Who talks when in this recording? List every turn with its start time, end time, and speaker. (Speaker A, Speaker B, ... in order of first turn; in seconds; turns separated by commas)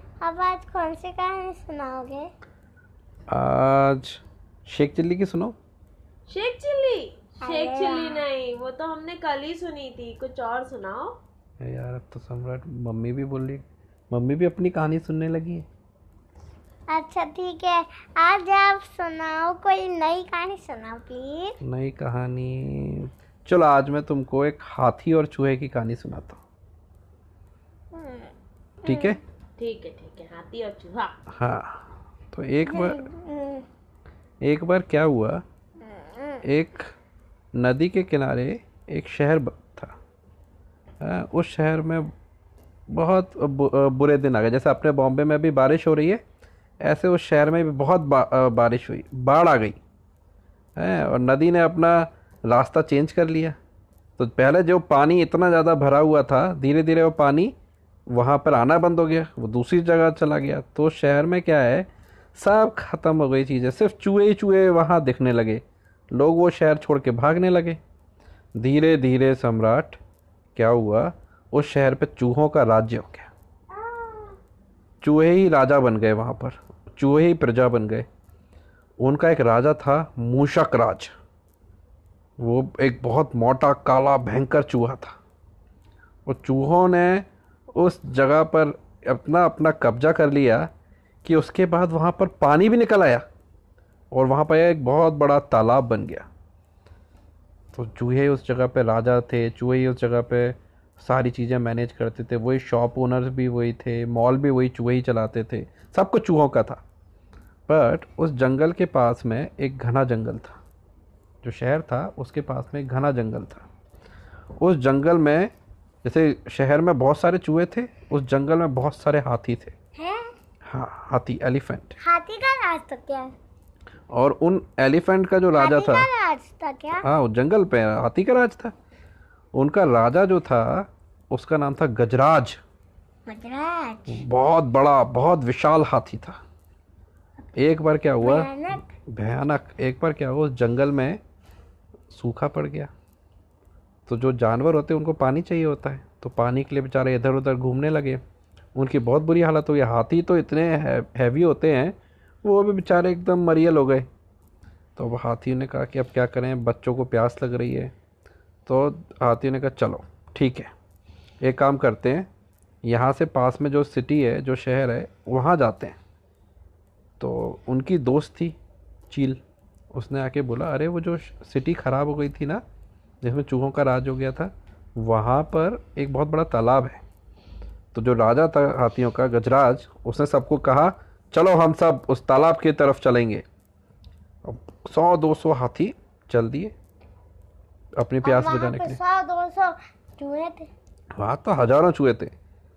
Speaker A: 0.2-2.3, Speaker B: 3.3-5.5, Speaker C: 6.3-11.1, Speaker A: 7.4-8.2, Speaker B: 11.6-15.7, Speaker A: 16.9-21.5, Speaker B: 21.6-26.4, Speaker A: 27.9-28.3, Speaker B: 28.8-29.2, Speaker A: 28.9-29.2, Speaker C: 29.6-31.1, Speaker B: 31.3-33.1, Speaker A: 32.6-33.6, Speaker B: 34.4-35.4, Speaker A: 36.0-36.4, Speaker B: 36.4-36.9, Speaker B: 37.5-39.9, Speaker B: 41.0-42.1, Speaker B: 42.9-46.2, Speaker B: 46.8-49.8, Speaker B: 50.8-53.6, Speaker B: 54.2-57.5, Speaker B: 58.1-67.8, Speaker B: 68.5-70.0, Speaker B: 70.5-73.3, Speaker B: 75.0-78.1, Speaker B: 79.0-81.1, Speaker B: 82.4-85.2, Speaker B: 86.2-90.7, Speaker B: 91.2-93.2, Speaker B: 94.1-96.3, Speaker B: 97.7-106.8, Speaker B: 107.7-110.6, Speaker B: 111.4-113.7, Speaker B: 114.6-115.5, Speaker B: 116.0-119.8, Speaker A: 120.0-120.2, Speaker B: 120.6-122.0, Speaker A: 122.0-123.3, Speaker B: 124.1-126.1, Speaker A: 125.5-127.0, Speaker B: 127.0-128.7, Speaker B: 129.5-132.6, Speaker A: 133.3-134.2, Speaker B: 134.1-136.4, Speaker B: 137.6-141.2, Speaker A: 138.2-138.8, Speaker B: 142.1-142.9, Speaker B: 144.1-148.2, Speaker B: 148.7-154.1, Speaker B: 154.9-157.9, Speaker B: 158.7-160.7, Speaker B: 161.4-162.3, Speaker B: 162.8-166.0, Speaker B: 167.2-168.6, Speaker B: 169.1-169.4, Speaker B: 169.9-172.6, Speaker B: 173.2-177.0, Speaker B: 177.9-183.4, Speaker B: 184.4-186.7, Speaker B: 188.0-189.0, Speaker A: 188.2-190.7, Speaker B: 191.2-192.3